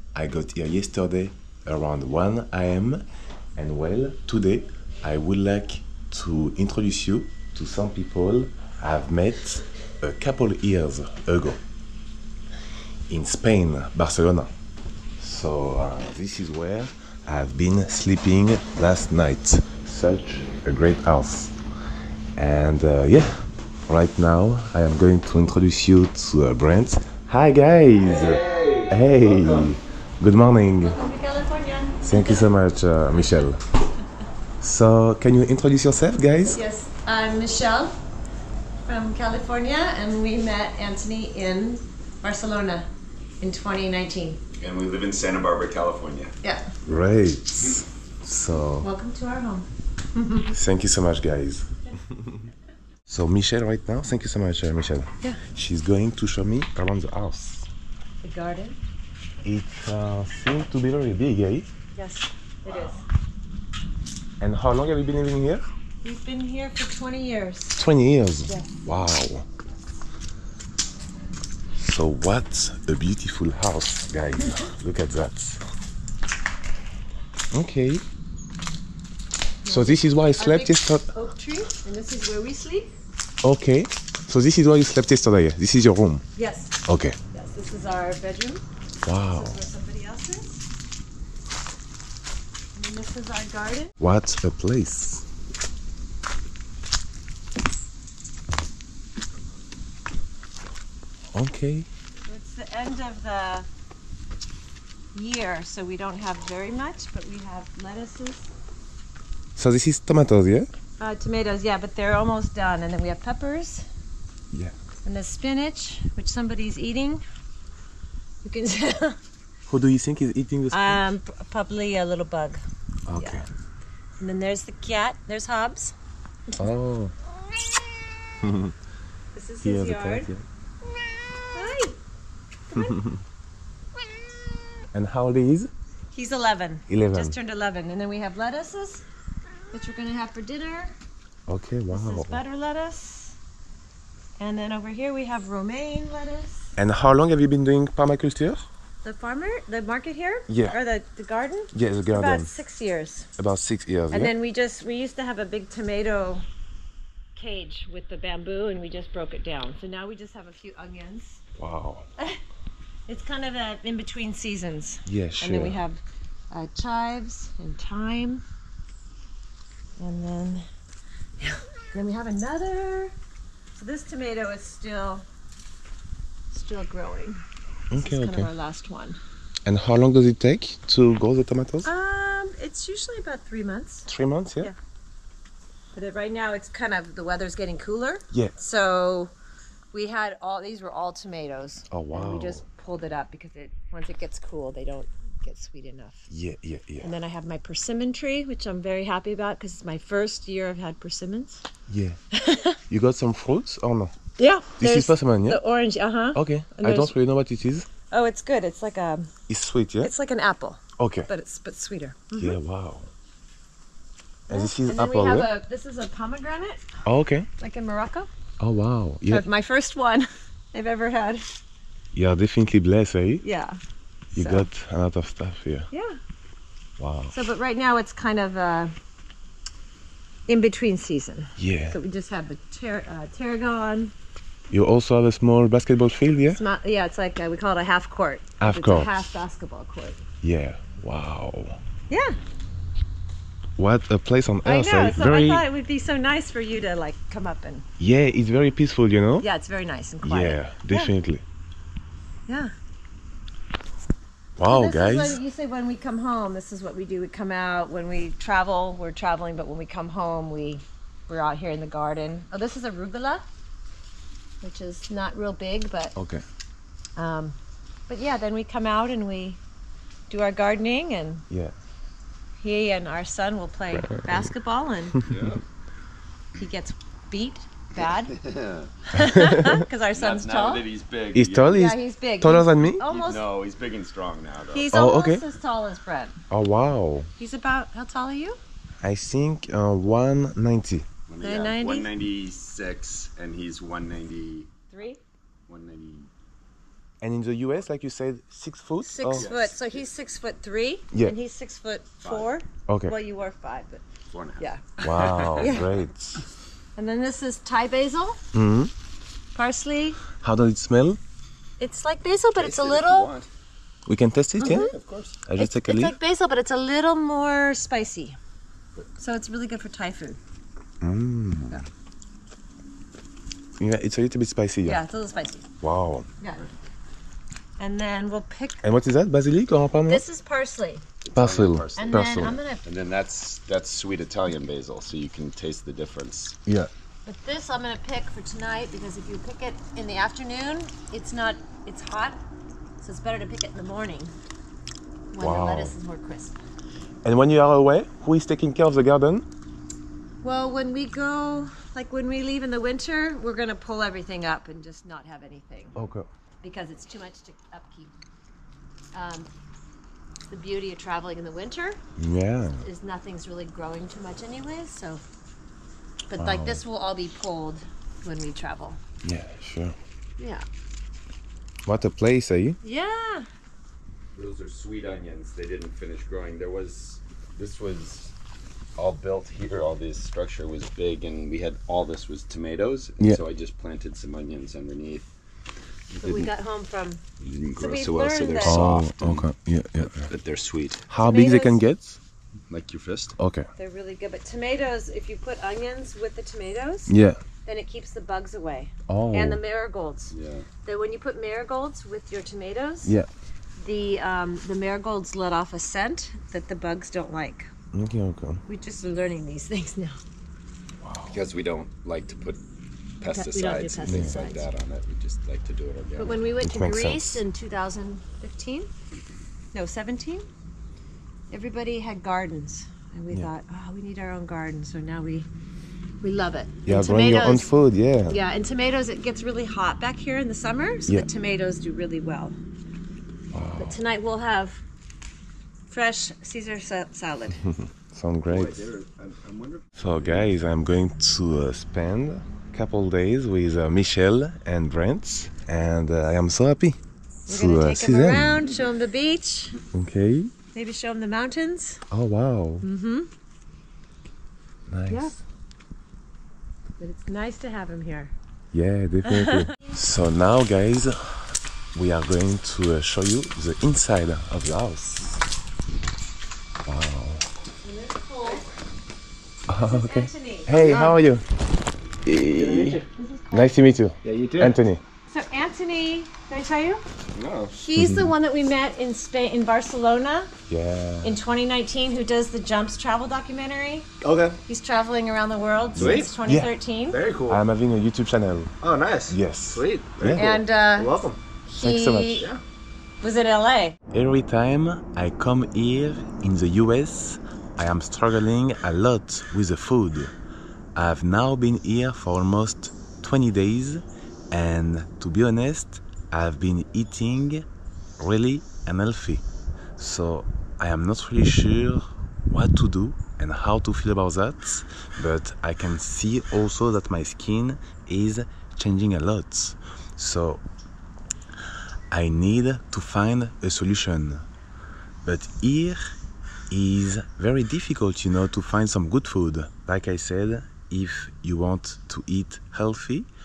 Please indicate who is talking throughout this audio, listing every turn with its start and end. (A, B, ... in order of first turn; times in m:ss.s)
0:00.2-0:11.6 A
0:13.1-0:14.5 A
0:15.2-0:21.6 A
0:22.4-0:31.0 A
0:28.2-0:28.9 B
0:30.8-0:32.5 C
0:32.0-0:33.6 A
0:34.6-0:36.6 A
0:36.5-0:38.0 C
0:38.8-0:42.9 C
0:43.4-0:44.4 C
0:44.6-0:46.3 B
0:46.4-0:46.7 C
0:46.9-0:48.9 A
0:48.8-0:50.5 C
0:50.5-0:51.8 A
0:53.1-0:57.7 A
0:58.2-0:58.8 C
0:59.4-1:01.7 A
1:02.0-1:03.0 C
1:04.4-1:05.6 A
1:06.0-1:07.8 C
1:07.8-1:09.5 A
1:08.5-1:08.7 C
1:11.8-1:15.6 A
1:17.5-1:18.0 A
1:19.6-1:22.9 C
1:19.7-1:21.1 A
1:23.4-1:26.2 A
1:26.4-1:26.8 C
1:26.9-1:27.2 A
1:27.3-1:28.6 C
1:29.0-1:29.6 A
1:29.3-1:30.6 C
1:32.8-1:33.9 C
1:34.0-1:35.2 A
1:41.3-1:41.9 A
1:42.2-1:43.7 C
1:45.1-1:48.5 C
1:49.6-1:50.7 A
1:51.0-1:53.9 C
1:55.0-1:57.2 C
1:58.4-1:59.2 C
1:59.7-2:01.0 A
2:00.7-2:02.6 C
2:03.1-2:03.4 A
2:03.2-2:03.4 C
2:04.2-2:06.0 C
2:06.6-2:07.1 A
2:08.4-2:08.7 A
2:09.3-2:10.3 C
2:09.6-2:10.4 A
2:11.5-2:12.0 C
2:12.7-2:13.0 C
2:12.7-2:13.2 A
2:14.9-2:15.7 A
2:16.1-2:19.0 C
2:16.9-2:17.4 A
2:19.7-2:21.0 C
2:21.5-2:22.4 A
2:21.9-2:23.4 C
2:24.4-2:26.7 C
2:26.8-2:28.6 A
2:29.0-2:33.3 C
2:30.5-2:30.8 A
2:31.7-2:32.5 A
2:33.4-2:34.3 A
2:34.1-2:36.4 C
2:37.4-2:41.4 C
2:41.6-2:42.1 A
2:43.1-2:48.4 C
2:45.1-2:45.8 A
2:50.0-2:50.7 C
2:51.4-2:53.1 C
2:53.8-2:55.2 C
2:56.5-2:57.4 C
2:57.9-2:58.5 A
2:58.0-2:59.2 C
2:59.6-3:01.9 A
3:01.8-3:04.1 C
3:04.1-3:04.7 A
3:06.0-3:09.3 C
3:08.3-3:08.6 A
3:09.9-3:16.3 C
3:11.9-3:12.6 A
3:16.3-3:17.1 A
3:17.0-3:21.7 C
3:21.9-3:22.2 A
3:22.3-3:22.8 C
3:22.9-3:24.1 A
3:24.4-3:27.2 C
3:24.8-3:25.6 A
3:26.3-3:27.9 A
3:28.1-3:29.3 C
3:29.5-3:30.1 A
3:30.0-3:32.6 C
3:31.0-3:31.3 A
3:32.4-3:33.1 A
3:34.5-3:35.5 A
3:34.5-3:36.8 C
3:37.0-3:37.5 A
3:37.6-3:38.3 C
3:38.6-3:39.5 A
3:39.3-3:41.4 C
3:42.1-3:43.4 A
3:43.4-3:43.8 C
3:44.3-3:45.9 A
3:44.4-3:44.7 C
3:45.9-3:46.2 C
3:47.0-3:47.4 A
3:47.3-3:48.9 C
3:50.5-3:54.1 C
3:51.6-3:52.0 A
3:54.7-3:56.6 A
3:56.5-4:00.2 C
3:58.6-3:59.3 A
4:00.4-4:01.8 A
4:02.1-4:02.4 C
4:03.8-4:05.6 A
4:04.6-4:07.9 C
4:08.0-4:09.5 A
4:09.4-4:11.1 C
4:10.2-4:11.4 A
4:14.6-4:15.4 A
4:14.7-4:23.4 C
4:24.6-4:26.2 C
4:26.2-4:26.4 A
4:27.2-4:27.6 C
4:28.1-4:29.6 C
4:30.3-4:31.4 C
4:32.6-4:35.2 C
4:34.0-4:34.3 A
4:35.3-4:35.6 B
4:36.6-4:38.4 C
4:38.0-4:38.9 B
4:39.1-4:40.9 C
4:39.3-4:39.8 A
4:40.1-4:41.8 B
4:41.3-4:43.0 A
4:41.7-4:43.4 C
4:43.1-4:44.9 B
4:44.7-4:46.4 C
4:44.9-4:45.4 A
4:46.5-4:47.3 A
4:47.4-4:48.6 C
4:49.0-4:51.1 A
4:51.3-4:54.7 B
4:51.4-4:52.1 C
4:54.9-4:55.2 C
4:55.7-4:56.3 B
4:57.2-4:59.5 A
4:59.0-5:04.0 C
4:59.3-5:00.1 B
5:02.2-5:02.6 B
5:02.9-5:03.2 A
5:04.3-5:05.7 B
5:04.6-5:05.0 C
5:05.0-5:06.4 A
5:05.6-5:05.9 C
5:07.0-5:08.4 C
5:08.5-5:08.9 A
5:09.5-5:10.2 C
5:10.4-5:11.2 A
5:11.8-5:13.3 C
5:12.6-5:13.5 B
5:14.1-5:14.9 A
5:14.6-5:14.9 C
5:14.6-5:15.4 B
5:15.4-5:16.2 A
5:15.6-5:18.4 C
5:19.2-5:20.4 C
5:21.0-5:21.8 A
5:23.8-5:25.0 A
5:24.8-5:25.7 C
5:25.8-5:26.3 A
5:26.4-5:26.7 C
5:27.8-5:28.9 C
5:28.8-5:30.2 A
5:30.1-5:31.0 C
5:31.2-5:36.6 B
5:31.4-5:32.6 A
5:32.0-5:32.8 C
5:37.3-5:42.4 C
5:43.0-5:44.3 C
5:45.3-5:46.6 C
5:45.4-5:45.9 A
5:47.2-5:49.5 A
5:50.4-5:56.0 C
5:56.0-5:56.3 A
5:56.6-5:58.2 C
5:59.1-5:59.5 C
6:00.5-6:02.0 C
6:02.2-6:02.8 A
6:02.8-6:05.2 C
6:06.3-6:09.0 C
6:06.4-6:06.8 A
6:09.2-6:10.0 A
6:10.4-6:10.6 C
6:11.9-6:12.8 A
6:12.8-6:13.5 C
6:14.4-6:18.3 B
6:19.0-6:25.3 B
6:26.1-6:26.5 B
6:26.2-6:27.2 C
6:27.4-6:29.5 B
6:27.8-6:28.8 C
6:28.6-6:30.3 A
6:30.0-6:31.1 B
6:31.1-6:32.2 A
6:31.2-6:31.8 C
6:32.7-6:33.4 B
6:33.4-6:33.7 A
6:33.8-6:37.1 C
6:37.1-6:37.4 A
6:37.7-6:40.3 C
6:39.1-6:39.6 A
6:40.3-6:40.7 B
6:40.8-6:43.2 C
6:43.8-6:47.7 C
6:47.9-6:48.6 A
6:48.7-6:50.2 C
6:51.0-6:51.4 A
6:51.3-6:52.6 B
6:53.2-6:56.4 B
6:53.3-6:54.7 C
6:54.1-6:54.4 A
6:56.2-6:58.9 C
6:56.6-6:57.4 A
6:59.7-7:00.5 C
7:01.5-7:05.5 C
7:06.2-7:07.7 C
7:06.9-7:08.4 A
7:08.3-7:12.6 C
7:13.5-7:14.0 A
7:13.8-7:14.8 C
7:15.9-7:17.6 C
7:17.7-7:18.9 A
7:18.5-7:20.5 B
7:20.0-7:28.7 A
7:27.5-7:29.8 C
7:29.9-7:30.5 A
7:30.7-7:32.0 C
7:32.1-7:32.9 A
7:32.8-7:33.3 C
7:34.9-7:35.4 A
7:35.1-7:35.4 C
7:37.0-7:38.3 C
7:38.7-7:45.4 A
7:39.2-7:39.7 C
7:46.9-7:47.5 A
7:47.8-7:48.6 C
7:49.7-7:51.5 A
7:49.8-7:51.2 C
7:52.2-7:53.0 A
7:52.6-7:53.1 B
7:53.2-7:53.8 C
7:53.5-7:55.0 A
7:54.2-7:54.8 B
7:55.3-7:57.0 C
7:57.4-7:57.8 B
7:57.8-8:00.5 C
7:57.9-7:58.3 A
8:00.7-8:01.4 A
8:01.2-8:04.1 C
8:04.2-8:04.6 B
8:04.7-8:07.2 C
8:06.0-8:06.7 A
8:06.0-8:06.3 B
8:07.1-8:07.6 B
8:07.5-8:08.7 A
8:08.8-8:11.4 B
8:09.3-8:10.6 A
8:10.4-8:12.5 C
8:11.8-8:12.5 A
8:13.2-8:14.0 C
8:14.1-8:20.3 A
8:21.0-8:27.7 A
8:28.2-8:29.4 A
8:30.0-8:40.6 A
8:42.1-8:44.5 A
8:45.2-8:46.1 A
8:46.7-8:53.3 A